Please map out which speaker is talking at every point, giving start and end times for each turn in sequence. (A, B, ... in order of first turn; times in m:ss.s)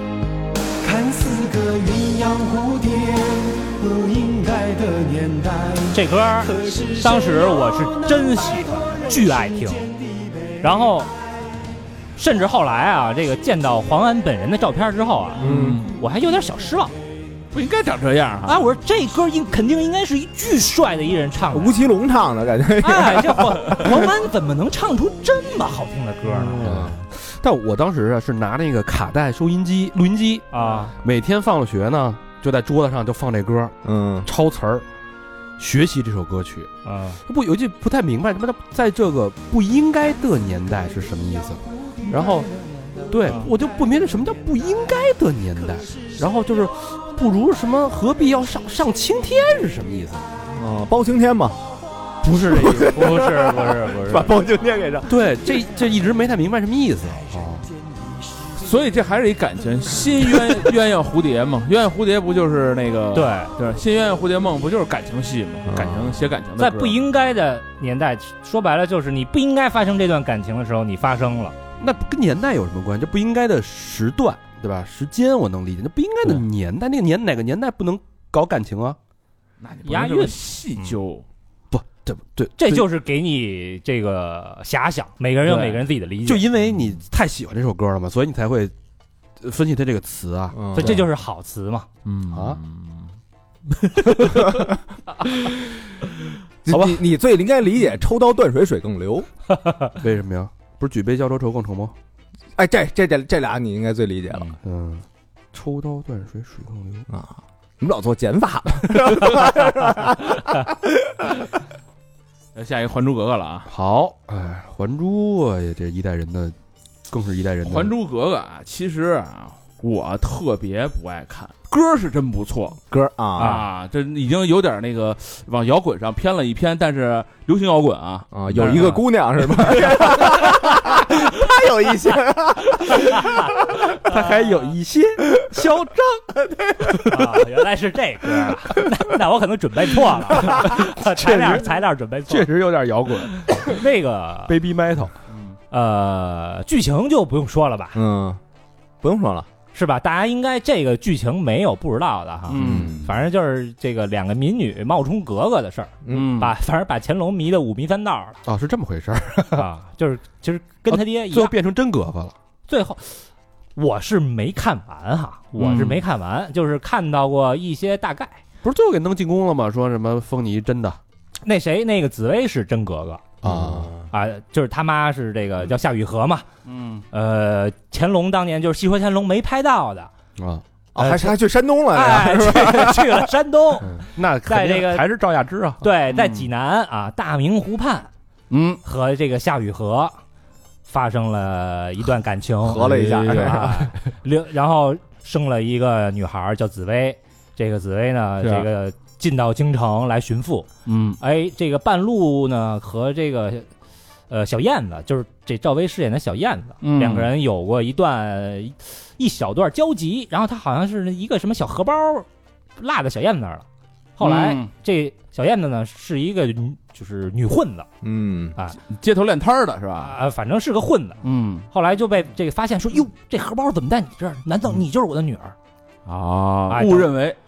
0:00.8-0:05.9 A
0:05.9-0:09.9 B
0:10.6-0:11.1 B
0:12.2-0:16.9 B
0:15.4-0:15.9 C
0:15.4-0:15.9 D
0:17.5-0:18.6 D
0:18.5-0:21.8 B
0:21.5-0:24.0 C
0:22.8-0:26.6 B
0:26.3-0:27.0 C
0:26.6-0:30.5 E
0:30.5-0:30.9 B
0:31.0-0:34.8 E
0:33.8-0:34.3 C
0:35.6-0:36.7 E
0:36.8-0:37.2 B
0:37.3-0:42.5 E
0:43.1-0:50.3 E
0:50.5-0:51.6 C
0:52.2-0:54.3 B
0:52.4-0:52.9 E
0:52.5-0:55.1 C
0:55.1-0:57.7 E
0:58.6-1:07.0 D
1:03.1-1:03.5 B
1:05.7-1:06.2 C
1:06.6-1:11.6 B
1:11.8-1:19.0 E
1:19.6-1:21.2 D
1:19.8-1:21.0 B
1:21.7-1:22.9 E
1:22.6-1:26.5 B
1:25.4-1:25.8 D
1:26.2-1:28.7 E
1:29.4-1:31.0 E
1:30.5-1:31.0 C
1:30.7-1:31.9 B
1:32.0-1:33.1 D
1:32.3-1:32.6 E
1:34.1-1:34.4 E
1:36.6-1:39.3 C
1:36.7-1:37.0 E
1:39.6-1:39.9 B
1:40.0-1:41.9 E
1:42.6-1:44.5 C
1:44.6-1:47.1 E
1:47.1-1:51.3 C
1:52.6-1:53.7 D
1:53.7-1:56.6 E
1:57.1-1:57.9 E
1:57.6-2:02.8 D
2:02.9-2:03.6 C
2:03.4-2:10.5 D
2:03.4-2:03.7 B
2:08.3-2:13.5 C
2:13.9-2:16.4 E
2:17.0-2:22.5 B
2:21.2-2:21.6 E
2:22.3-2:23.7 E
2:23.6-2:24.5 B
2:24.5-2:25.1 E
2:25.7-2:28.0 B
2:27.9-2:28.4 C
2:29.0-2:29.5 C
2:29.7-2:38.4 B
2:32.5-2:33.1 E
2:32.6-2:33.0 C
2:36.0-2:36.4 C
2:38.4-2:39.6 E
2:39.5-2:41.6 B
2:40.9-2:42.4 E
2:42.7-2:48.4 B
2:45.6-2:46.0 E
2:48.6-2:51.0 E
2:51.4-2:53.2 B
2:53.4-2:54.0 E
2:53.4-2:54.0 C
2:54.1-2:56.5 B
2:56.7-2:57.0 D
2:57.1-3:00.1 B
3:00.4-3:00.6 E
3:01.0-3:03.3 C
3:01.0-3:05.1 B
3:03.9-3:05.8 E
3:05.8-3:08.1 B
3:08.5-3:08.8 E
3:08.8-3:10.2 B
3:10.9-3:20.7 B
3:12.6-3:13.7 C
3:12.8-3:13.8 D
3:18.4-3:18.7 D
3:20.9-3:21.2 D
3:21.2-3:23.7 B
3:24.3-3:33.6 B
3:26.8-3:27.3 D
3:34.2-3:37.9 B
3:34.2-3:34.7 D
3:38.0-3:38.6 C
3:38.9-3:40.2 D
3:40.0-3:45.6 B
3:41.2-3:41.7 D
3:46.1-3:47.4 D
3:46.7-3:47.1 B